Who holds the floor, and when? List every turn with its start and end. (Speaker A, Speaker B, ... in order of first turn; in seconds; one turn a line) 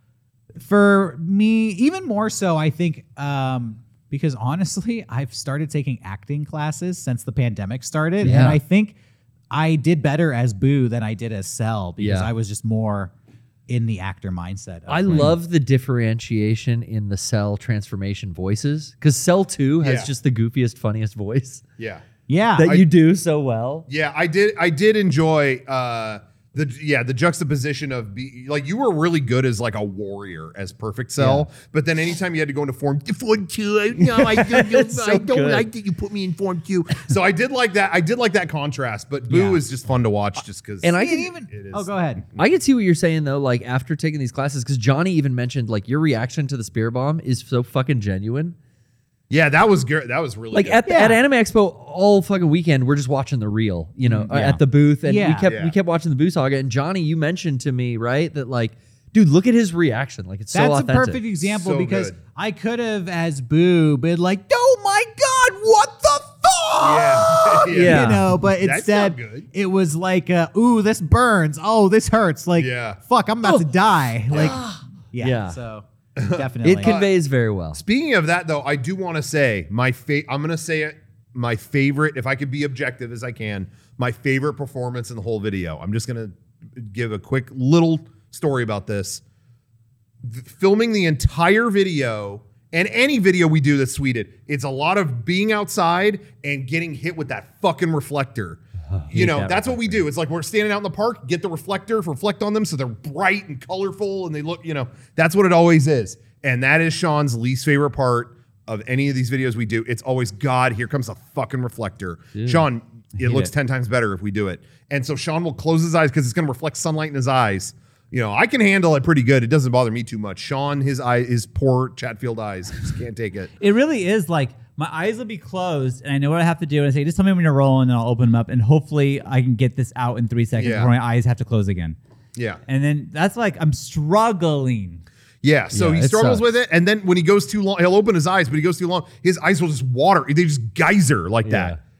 Speaker A: 0.6-8.9
Speaker B: 8.2-8.6
Speaker A: 9.5-13.1
Speaker B: 12.0-12.3
Speaker A: 13.7-15.3
Speaker B: 14.9-21.6
Speaker C: 19.8-20.1
Speaker C: 21.8-22.0
Speaker A: 22.3-22.8
Speaker B: 22.6-23.9
Speaker C: 23.9-41.0
Speaker B: 34.0-35.6
Speaker B: 40.8-41.3
Speaker A: 41.0-42.2
Speaker C: 41.5-42.4
Speaker B: 42.4-48.5
Speaker C: 49.3-50.9
Speaker B: 50.5-61.2
Speaker A: 50.9-51.2
Speaker D: 54.3-54.6
Speaker A: 55.0-55.5
Speaker C: 55.5-55.7
Speaker A: 60.5-76.9
Speaker C: 61.4-62.2
Speaker C: 66.8-69.5
Speaker B: 67.7-68.4
Speaker C: 72.6-73.0
Speaker C: 74.3-74.6
Speaker B: 74.3-75.6
Speaker C: 76.2-77.1
Speaker B: 76.6-77.8
Speaker C: 77.7-89.2
Speaker C: 90.2-123.5
Speaker B: 98.9-100.0
Speaker B: 112.3-112.6
Speaker D: 113.2-113.5
Speaker D: 123.6-132.0
Speaker C: 130.6-130.9
Speaker C: 132.3-132.6
Speaker D: 132.7-135.0
Speaker C: 135.4-141.8
Speaker B: 135.7-136.4
Speaker B: 141.4-141.8